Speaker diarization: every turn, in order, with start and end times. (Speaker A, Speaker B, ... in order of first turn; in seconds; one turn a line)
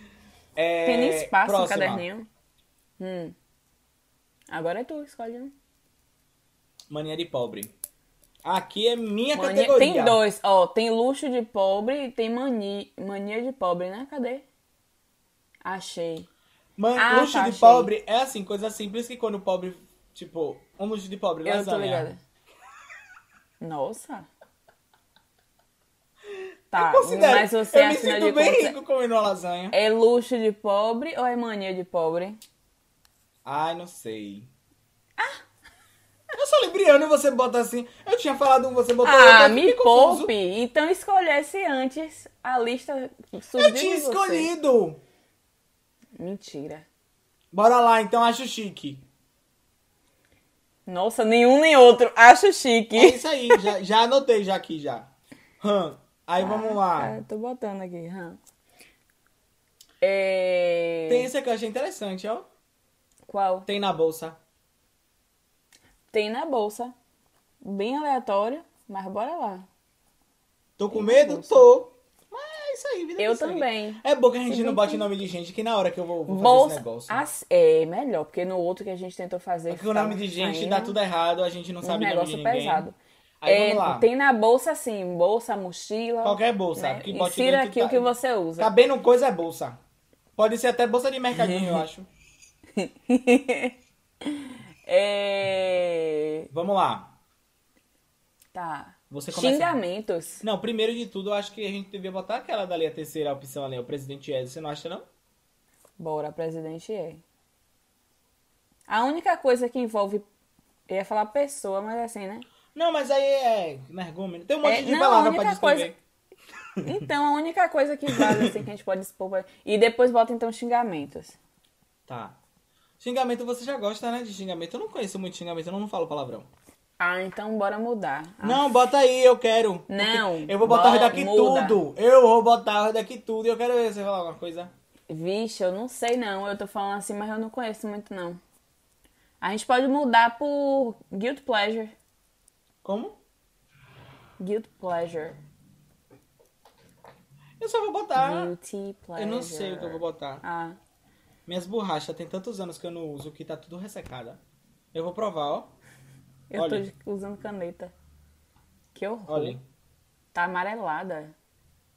Speaker A: 0.6-2.0
Speaker B: 0.8-2.2
Speaker B: 3.0-3.3
Speaker B: 4.5-5.5
Speaker A: 6.9-7.7
Speaker A: 8.4-10.2
Speaker B: 9.3-14.4
Speaker B: 15.6-16.3
Speaker A: 16.8-22.1
Speaker B: 16.9-17.9
Speaker B: 21.4-22.2
Speaker B: 23.6-24.3
Speaker A: 26.7-29.7
Speaker B: 26.7-28.8
Speaker B: 29.7-32.4
Speaker A: 33.4-34.5
Speaker A: 36.3-40.3
Speaker B: 39.0-44.5
Speaker A: 43.6-45.0
Speaker B: 46.2-46.8
Speaker A: 47.5-49.0
Speaker B: 50.9-53.7
Speaker A: 52.9-55.1
Speaker A: 55.6-57.1
Speaker B: 56.4-58.4
Speaker B: 60.0-61.3
Speaker A: 61.1-62.5
Speaker B: 63.3-63.7
Speaker A: 63.7-64.4
Speaker B: 66.1-66.9
Speaker B: 67.6-69.7
Speaker A: 70.8-77.2
Speaker B: 70.9-71.7
Speaker B: 73.2-75.2
Speaker B: 76.3-81.0
Speaker A: 79.7-82.8
Speaker B: 81.8-82.9
Speaker A: 83.4-84.1
Speaker B: 83.5-88.7
Speaker A: 86.2-89.8
Speaker A: 90.3-92.1
Speaker B: 91.3-91.8
Speaker B: 92.8-93.7
Speaker B: 94.2-96.5
Speaker A: 96.5-97.2
Speaker B: 98.5-100.4
Speaker A: 99.1-99.8
Speaker A: 100.4-105.0
Speaker B: 106.0-107.2
Speaker B: 108.9-110.2
Speaker B: 110.9-112.5
Speaker A: 112.7-116.0
Speaker B: 114.6-115.9
Speaker A: 116.8-117.0
Speaker B: 116.8-121.3
Speaker A: 118.1-118.6
Speaker A: 122.1-122.4
Speaker A: 123.0-126.5
Speaker B: 127.0-128.7
Speaker A: 128.4-134.7
Speaker B: 129.9-131.8
Speaker B: 135.1-138.4
Speaker B: 139.4-141.9
Speaker A: 142.8-143.2
Speaker B: 144.4-145.4
Speaker A: 147.6-148.5
Speaker B: 148.2-150.8
Speaker A: 149.2-150.4
Speaker A: 151.4-154.4
Speaker A: 154.9-155.7
Speaker B: 156.5-157.9
Speaker A: 156.5-156.8
Speaker B: 158.9-159.6
Speaker A: 159.3-159.6
Speaker B: 160.3-161.3